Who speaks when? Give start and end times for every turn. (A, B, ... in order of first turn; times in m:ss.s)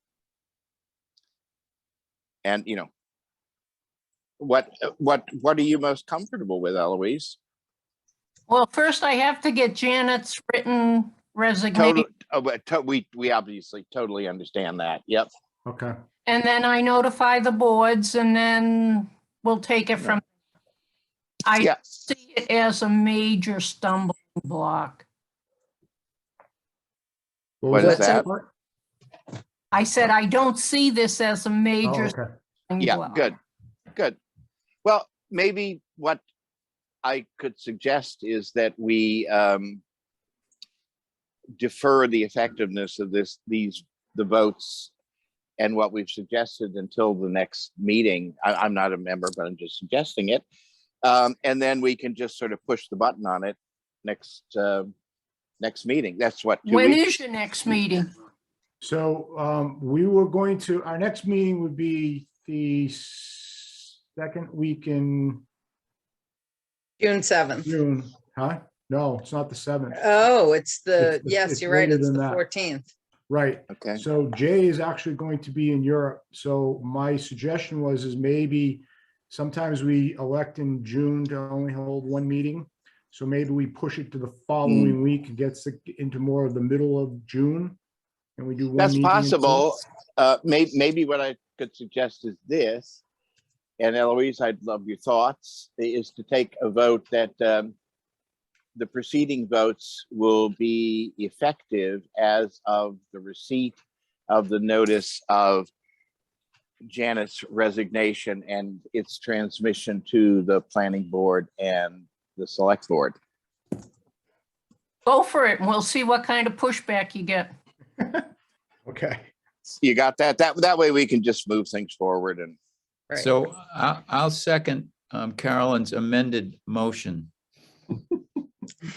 0:02.4-0:02.9 A
0:04.4-0:07.4 A
0:08.5-0:12.1 B
0:11.7-0:15.3 A
0:15.7-0:16.0 C
0:16.3-0:20.2 B
0:21.5-0:25.0 B
0:27.6-0:28.5 C
0:27.7-0:28.3 A
0:27.8-0:28.2 D
0:29.7-0:32.2 B
0:31.8-0:32.3 C
0:32.7-0:33.3 B
0:32.8-0:33.4 A
0:34.8-0:36.2 A
0:37.0-0:39.8 A
0:41.6-0:44.9 A
0:45.6-0:50.4 A
0:51.0-0:54.9 A
0:55.6-0:57.1 A
0:56.7-0:58.1 B
0:58.8-1:05.4 C
1:07.0-1:07.7 D
1:07.6-1:10.0 C
1:10.0-1:12.9 D
1:11.0-1:12.4 C
1:13.3-1:27.8 C
1:13.7-1:14.0 A
1:24.7-1:25.0 A
1:28.4-1:29.7 C
1:28.8-1:33.0 A
1:33.8-1:37.7 A
1:38.8-1:43.8 A
1:44.3-1:45.7 A
1:46.9-1:53.2 A
1:55.1-1:57.5 B
1:58.0-1:58.3 C
1:58.9-1:59.3 C
1:59.8-2:02.6 A
2:03.1-2:07.3 E